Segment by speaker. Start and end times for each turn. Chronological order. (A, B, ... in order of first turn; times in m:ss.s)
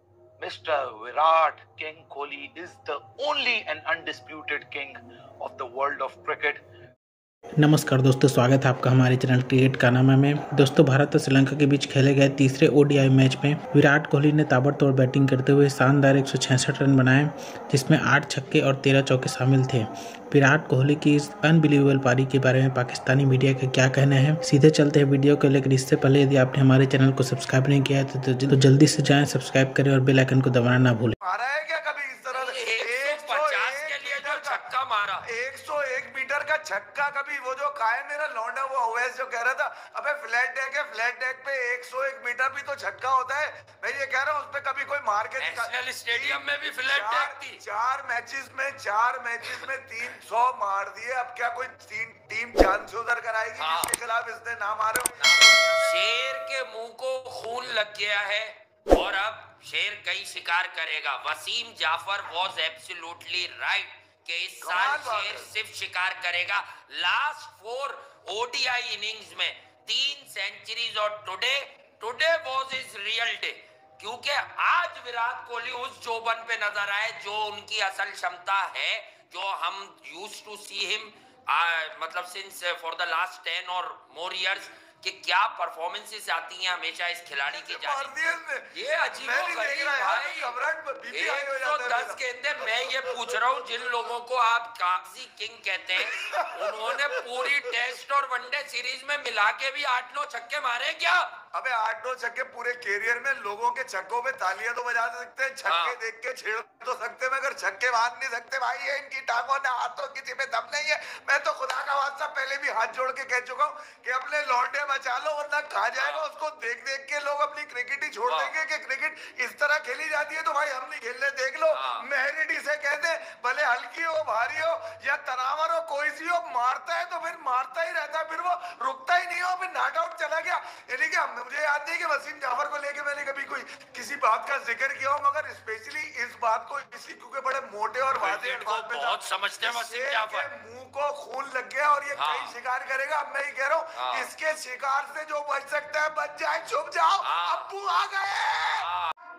0:00.4-0:06.6 A
0:07.6-0:31.2 B
0:31.2-0:34.7 C
0:32.3-0:35.3 D
0:35.2-0:56.0 C
0:45.4-0:47.6 D
0:53.6-0:53.9 D
0:55.2-1:30.6 D
1:04.6-1:05.5 C
1:27.4-1:33.4 C
1:31.1-1:41.3 D
1:36.0-1:37.5 C
1:41.5-2:28.9 C
1:45.6-1:46.0 D
1:56.0-1:56.2 D
1:58.3-1:58.6 D
2:01.7-2:02.0 D
2:18.2-2:20.5 D
2:22.2-2:22.6 D
2:24.0-2:24.3 D
2:27.2-2:27.7 D
2:28.8-2:29.1 D